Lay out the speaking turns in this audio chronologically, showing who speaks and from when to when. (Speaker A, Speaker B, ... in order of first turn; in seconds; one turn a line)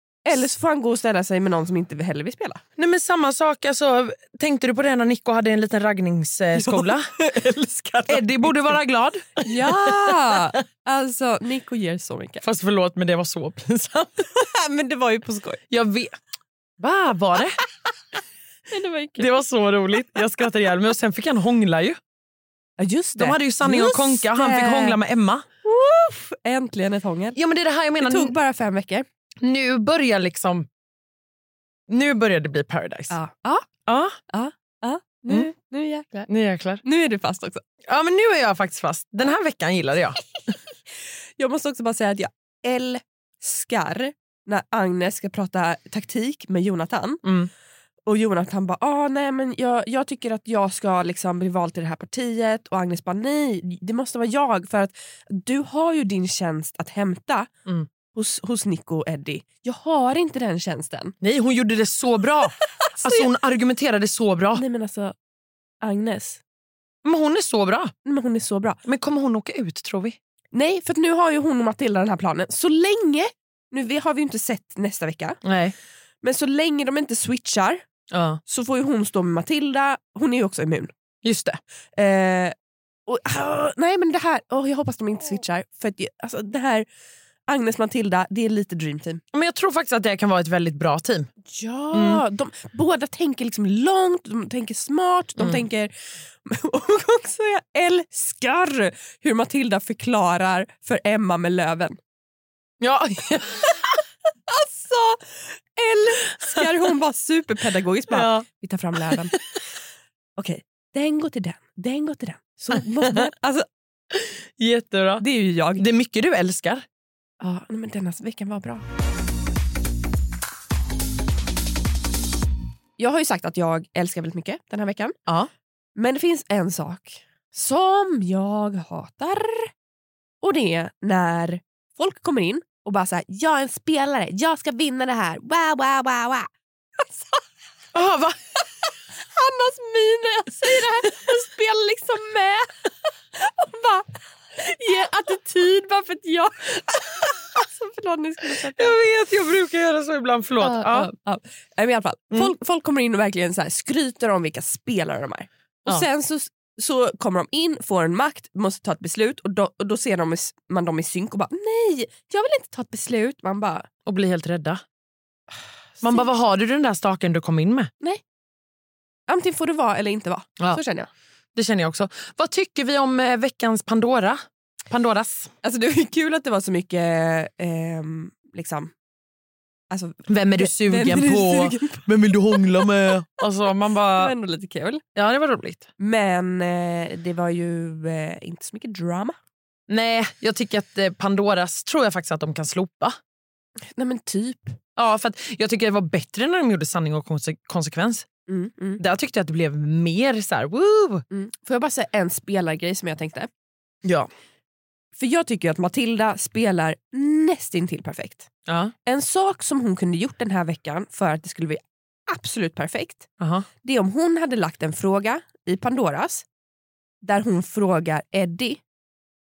Speaker A: 0.2-2.6
Speaker B: 2.8-7.0
Speaker A: 6.5-8.7
Speaker B: 8.1-10.5
Speaker A: 9.4-12.4
Speaker B: 12.4-14.3
Speaker A: 14.3-15.6
Speaker B: 15.7-16.1
Speaker B: 16.8-17.6
Speaker A: 18.7-19.3
Speaker B: 19.2-22.0
Speaker A: 22.8-25.0
Speaker B: 23.2-25.4
Speaker A: 25.6-27.4
Speaker B: 27.4-28.3
Speaker A: 28.0-29.0
Speaker B: 29.4-30.7
Speaker B: 31.9-33.1
Speaker A: 33.1-33.7
Speaker B: 33.9-34.1
Speaker A: 34.3-36.3
Speaker B: 36.3-36.8
Speaker A: 36.8-37.6
Speaker B: 37.9-40.5
Speaker A: 41.4-47.2
Speaker B: 47.2-47.5
Speaker A: 48.0-57.5
Speaker A: 58.1-61.1
Speaker B: 61.2-64.6
Speaker A: 62.9-63.3
Speaker A: 64.5-65.1
Speaker A: 65.8-66.4
Speaker B: 67.0-67.9
Speaker A: 68.0-68.8
Speaker B: 68.8-70.2
Speaker A: 70.5-75.4
Speaker B: 75.4-75.7
Speaker A: 76.2-77.8
Speaker B: 78.1-78.4
Speaker A: 78.5-80.9
Speaker B: 81.2-81.6
Speaker A: 82.0-82.5
Speaker A: 83.1-86.8
Speaker A: 87.5-89.2
Speaker B: 89.3-91.3
Speaker A: 91.4-95.9
Speaker B: 91.9-92.2
Speaker A: 96.4-102.0
Speaker B: 102.8-103.8
Speaker A: 104.5-109.3
Speaker B: 108.1-108.4
Speaker B: 109.0-109.4
Speaker A: 110.4-113.6
Speaker B: 114.1-115.2
Speaker A: 115.2-115.8
Speaker B: 115.8-116.8
Speaker A: 117.4-118.8
Speaker A: 123.0-125.1
Speaker A: 126.0-129.7
Speaker A: 130.4-136.5
Speaker A: 137.0-137.4
Speaker B: 137.9-138.3
Speaker A: 139.2-142.7
Speaker A: 143.3-149.0
Speaker B: 148.6-151.1
Speaker A: 150.6-163.9
Speaker B: 164.0-164.8
Speaker A: 166.0-166.3
Speaker B: 166.0-167.9
Speaker A: 169.3-171.1
Speaker B: 171.5-175.5
Speaker A: 175.6-178.9
Speaker A: 179.9-182.0
Speaker B: 180.3-184.3
Speaker A: 184.2-185.0
Speaker B: 185.2-185.8
Speaker A: 186.0-189.3
Speaker B: 189.9-193.2
Speaker A: 193.8-194.8
Speaker B: 194.9-198.2
Speaker A: 198.5-199.0
Speaker B: 199.0-201.2
Speaker A: 201.3-203.5
Speaker B: 204.0-204.3
Speaker A: 205.2-208.5
Speaker B: 208.7-208.9
Speaker A: 209.0-213.3
Speaker B: 213.4-213.7
Speaker A: 213.8-216.4
Speaker A: 217.2-218.8